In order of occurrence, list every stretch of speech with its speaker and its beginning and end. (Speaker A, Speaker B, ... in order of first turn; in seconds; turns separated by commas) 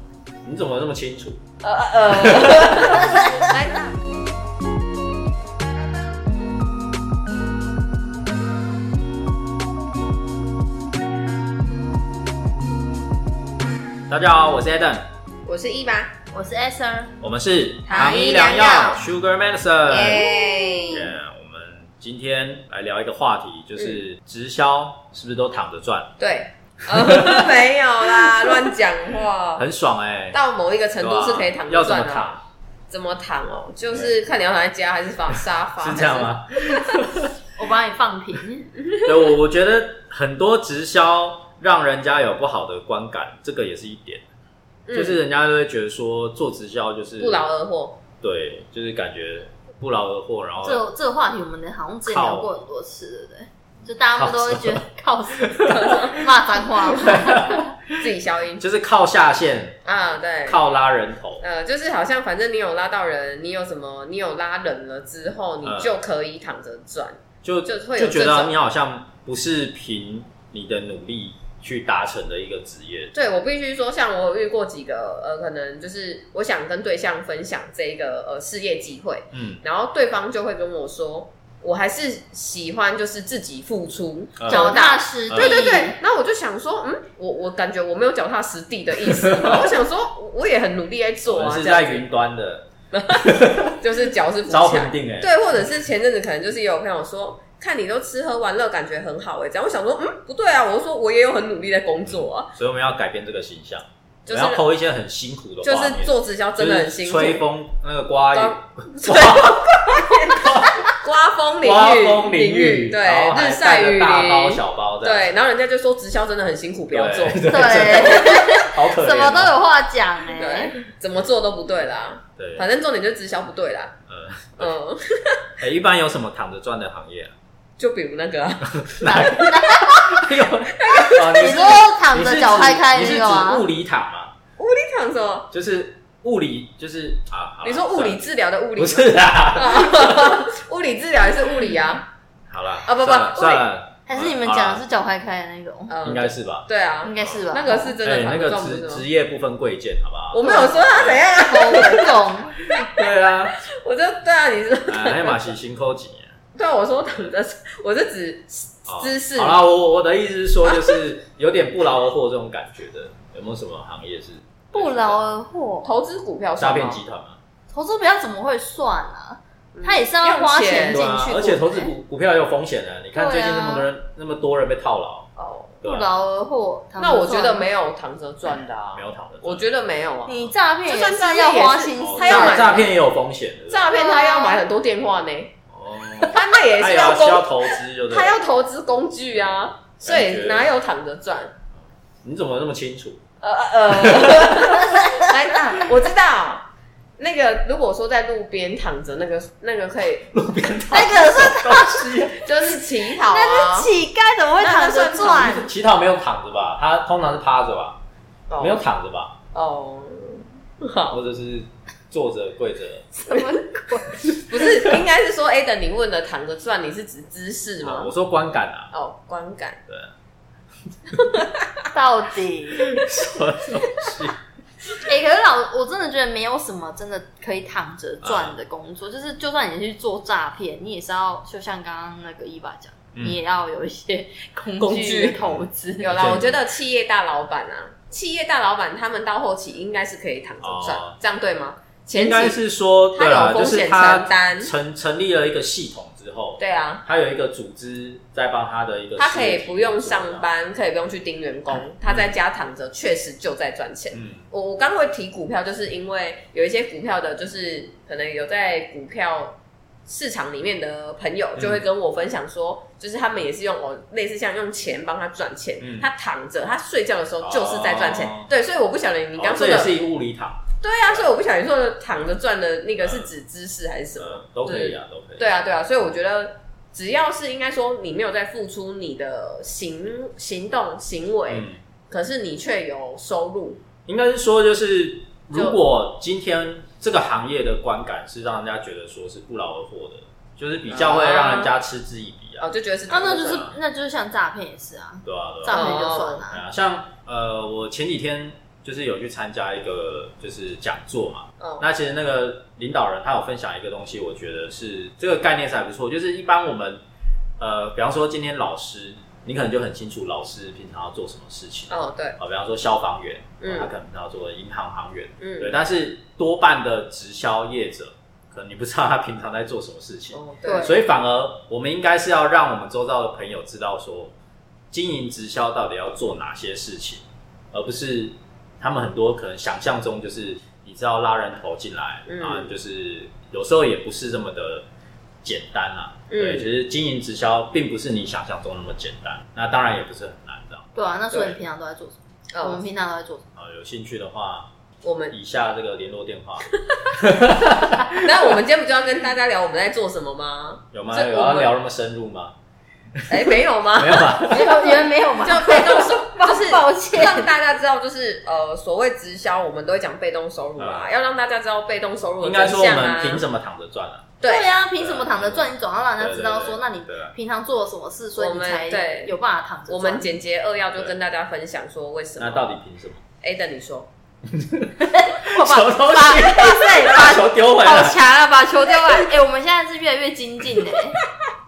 Speaker A: 0.4-1.4, Speaker B: 1.6-4.0, Speaker A: 14.1-15.1, Speaker B: 15.4-16.2, Speaker C: 16.3-17.1, Speaker A: 17.2-20.3, Speaker C: 17.9-18.3, Speaker B: 17.9-19.0, Speaker B: 19.8-21.1, Speaker A: 20.9-26.1, Speaker B: 26.2-29.6, Speaker A: 27.1-27.4, Speaker A: 29.6-30.4, Speaker B: 30.3-32.4, Speaker A: 31.0-32.4, Speaker B: 32.9-36.3, Speaker A: 35.3-37.3, Speaker C: 37.5-38.7, Speaker A: 38.9-44.2, Speaker B: 44.9-45.2, Speaker A: 44.9-47.5, Speaker B: 47.2-48.0, Speaker A: 48.2-50.8, Speaker C: 50.6-55.5, Speaker A: 52.0-52.5, Speaker A: 54.1-54.8, Speaker A: 55.3-55.9, Speaker B: 55.6-56.8, Speaker C: 56.1-57.7, Speaker A: 56.9-58.1, Speaker B: 57.9-58.6, Speaker A: 58.6-59.8, Speaker B: 59.8-60.6, Speaker A: 60.4-61.4, Speaker B: 61.4-68.5, Speaker A: 65.6-66.0, Speaker A: 67.4-73.1, Speaker B: 73.1-92.0, Speaker A: 79.3-79.6, Speaker A: 84.4-85.6, Speaker C: 84.5-86.0, Speaker A: 89.1-89.7, Speaker A: 91.2-93.8, Speaker B: 92.9-102.5, Speaker A: 94.5-95.3, Speaker A: 102.1-110.8, Speaker B: 104.2-104.6, Speaker B: 105.6-107.4, Speaker B: 108.3-118.5, Speaker A: 111.6-115.3, Speaker A: 116.9-119.5, Speaker C: 117.5-120.7, Speaker B: 120.3-123.9, Speaker A: 122.4-122.7, Speaker A: 124.1-124.7, Speaker B: 124.6-125.4, Speaker A: 125.6-127.3, Speaker B: 127.8-129.3, Speaker A: 128.8-129.5, Speaker C: 129.0-130.2, Speaker A: 130.1-134.3, Speaker B: 130.8-131.6, Speaker C: 131.3-133.7, Speaker B: 134.6-135.5, Speaker A: 135.5-138.2, Speaker B: 137.6-142.1, Speaker A: 138.8-140.4, Speaker A: 142.5-144.8, Speaker B: 142.8-143.7, Speaker C: 144.1-146.0, Speaker B: 145.9-149.1, Speaker A: 146.0-147.4, Speaker C: 147.0-148.0, Speaker A: 148.0-151.2, Speaker B: 150.3-155.5, Speaker C: 150.4-152.6, Speaker A: 152.7-153.5, Speaker A: 154.9-156.3, Speaker B: 156.5-159.6, Speaker A: 158.8-165.2, Speaker B: 160.7-161.0, Speaker C: 164.7-165.9, Speaker B: 165.8-167.0, Speaker A: 166.6-167.4, Speaker C: 167.7-171.9, Speaker B: 169.7-171.0, Speaker A: 170.8-175.3, Speaker C: 173.1-173.9, Speaker B: 175.3-175.8, Speaker A: 175.8-176.1, Speaker C: 175.8-177.7, Speaker B: 177.0-182.9, Speaker A: 178.9-179.7, Speaker C: 180.2-182.8, Speaker A: 182.0-183.9, Speaker B: 183.7-185.5, Speaker C: 183.9-184.6, Speaker A: 185.7-188.3, Speaker B: 186.3-191.5, Speaker A: 189.8-190.7, Speaker A: 192.2-193.2, Speaker B: 193.4-200.3, Speaker C: 194.8-195.3, Speaker A: 200.3-202.5, Speaker C: 200.9-202.2, Speaker B: 202.4-203.9, Speaker C: 203.1-205.7, Speaker B: 204.6-205.6, Speaker A: 205.4-208.0, Speaker B: 208.5-208.8, Speaker A: 208.6-209.4, Speaker B: 209.5-211.2, Speaker A: 211.1-213.1, Speaker B: 213.2-213.7, Speaker C: 213.3-214.2, Speaker B: 214.4-218.1, Speaker A: 217.8-218.9, Speaker B: 218.9-219.8, Speaker A: 219.9-220.1, Speaker B: 221.2-221.6, Speaker C: 221.9-223.0, Speaker A: 222.8-224.4, Speaker C: 224.9-236.3, Speaker A: 228.2-228.6, Speaker A: 233.1-233.4, Speaker B: 234.8-235.4, Speaker B: 236.0-242.6, Speaker A: 236.1-236.6, Speaker A: 240.6-241.2, Speaker A: 242.1-250.5, Speaker B: 243.1-244.7, Speaker B: 246.6-247.0, Speaker B: 249.2-270.0, Speaker A: 252.0-252.3, Speaker A: 254.1-254.4, Speaker A: 261.6-261.8, Speaker A: 265.8-266.1, Speaker A: 267.4-268.5, Speaker A: 269.4-271.3, Speaker B: 270.8-283.8, Speaker A: 273.0-273.3, Speaker A: 274.1-275.5, Speaker A: 281.5-281.8, Speaker A: 284.1-292.6, Speaker B: 285.5-285.8, Speaker B: 290.9-291.7, Speaker B: 292.6-293.7, Speaker C: 293.1-296.6, Speaker A: 295.2-307.0, Speaker B: 295.7-296.4, Speaker B: 301.6-301.9, Speaker A: 307.6-324.3, Speaker B: 311.9-312.4, Speaker B: 313.6-313.9, Speaker B: 315.4-315.8, Speaker B: 320.3-321.0, Speaker C: 320.6-321.0, Speaker A: 324.9-334.9, Speaker B: 332.3-332.7, Speaker A: 335.4-340.9, Speaker B: 336.3-336.7, Speaker C: 340.9-343.4, Speaker B: 341.3-341.6, Speaker B: 342.5-342.8, Speaker A: 343.6-344.7, Speaker B: 345.0-345.3, Speaker A: 345.3-348.3, Speaker B: 346.7-347.0, Speaker B: 348.1-351.7, Speaker A: 350.9-352.6, Speaker A: 353.2-354.7, Speaker B: 353.3-363.4, Speaker C: 354.4-357.5, Speaker A: 360.8-361.1, Speaker A: 362.4-364.4, Speaker B: 364.4-364.7, Speaker C: 364.4-370.4, Speaker A: 365.0-367.3, Speaker B: 368.4-369.3, Speaker B: 369.9-372.7, Speaker A: 372.4-373.2, Speaker B: 373.4-374.1, Speaker A: 374.5-378.2, Speaker C: 375.0-381.2